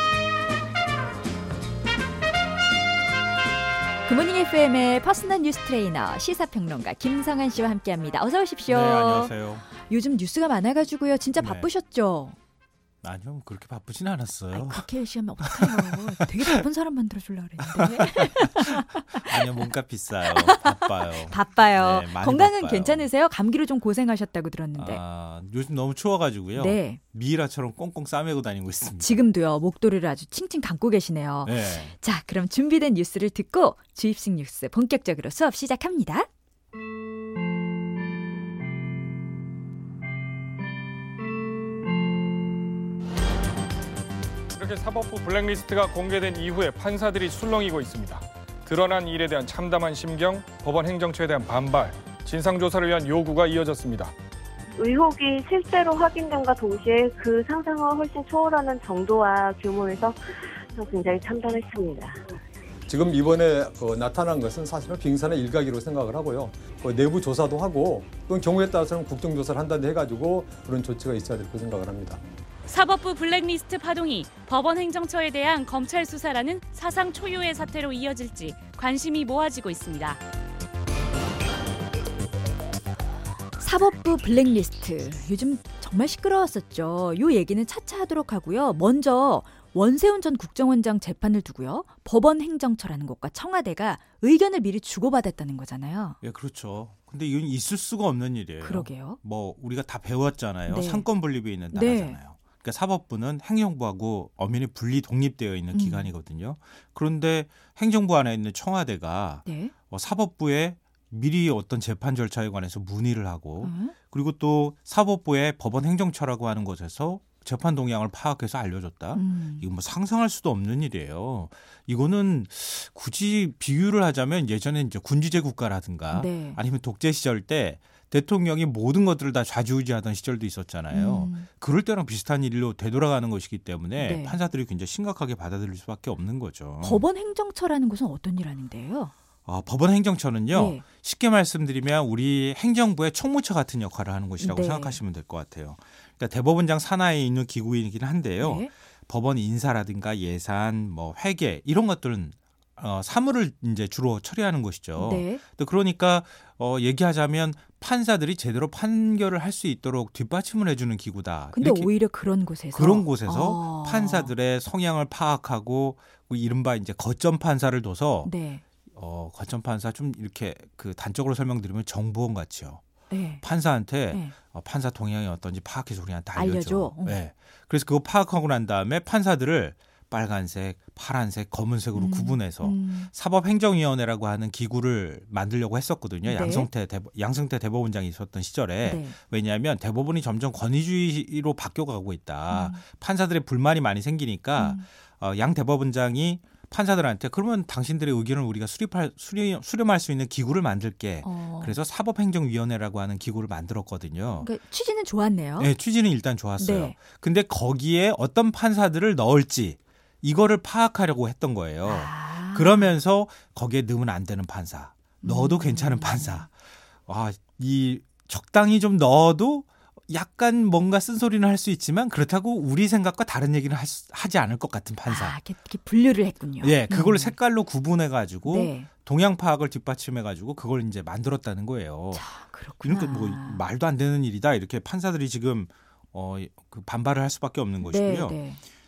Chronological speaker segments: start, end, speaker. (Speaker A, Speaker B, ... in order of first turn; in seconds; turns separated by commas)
Speaker A: 4.0-12.3, Speaker B: 8.7-9.6, Speaker B: 11.4-11.7, Speaker B: 13.0-14.9, Speaker A: 14.5-19.4, Speaker B: 15.4-16.2, Speaker B: 17.8-23.1, Speaker A: 20.3-25.0, Speaker B: 24.8-29.2, Speaker A: 26.6-27.0, Speaker A: 29.0-36.3, Speaker B: 31.4-31.9, Speaker C: 44.6-54.1, Speaker D: 54.8-62.2, Speaker E: 62.9-72.2, Speaker F: 72.7-80.2, Speaker A: 83.6-96.2, Speaker B: 96.2-137.0, Speaker A: 98.6-99.2, Speaker A: 100.7-101.1, Speaker A: 101.7-102.2, Speaker A: 105.7-106.1, Speaker A: 109.4-109.7, Speaker A: 113.6-113.9, Speaker A: 119.1-119.6, Speaker A: 126.1-126.6, Speaker A: 130.9-131.5, Speaker A: 134.0-134.4, Speaker A: 136.8-139.1, Speaker B: 139.4-161.9, Speaker A: 140.5-140.8, Speaker A: 144.4-145.0, Speaker A: 148.4-148.7, Speaker A: 155.0-155.4, Speaker A: 161.5-164.3, Speaker B: 162.7-168.3, Speaker A: 168.2-168.6, Speaker B: 168.9-172.8, Speaker A: 173.1-173.4, Speaker B: 173.4-204.5, Speaker A: 174.1-174.3, Speaker A: 176.3-177.2, Speaker A: 181.9-183.1, Speaker A: 186.2-186.7, Speaker A: 188.8-189.2, Speaker A: 192.5-192.8, Speaker A: 194.6-194.8, Speaker A: 201.2-201.8, Speaker A: 204.4-205.7, Speaker B: 205.6-216.5, Speaker A: 206.6-206.9, Speaker A: 211.8-212.9, Speaker A: 215.2-216.4, Speaker B: 217.1-225.4, Speaker A: 225.1-227.3, Speaker B: 226.6-232.2, Speaker A: 228.4-228.9, Speaker A: 232.1-233.6, Speaker B: 232.8-238.4, Speaker A: 237.8-238.6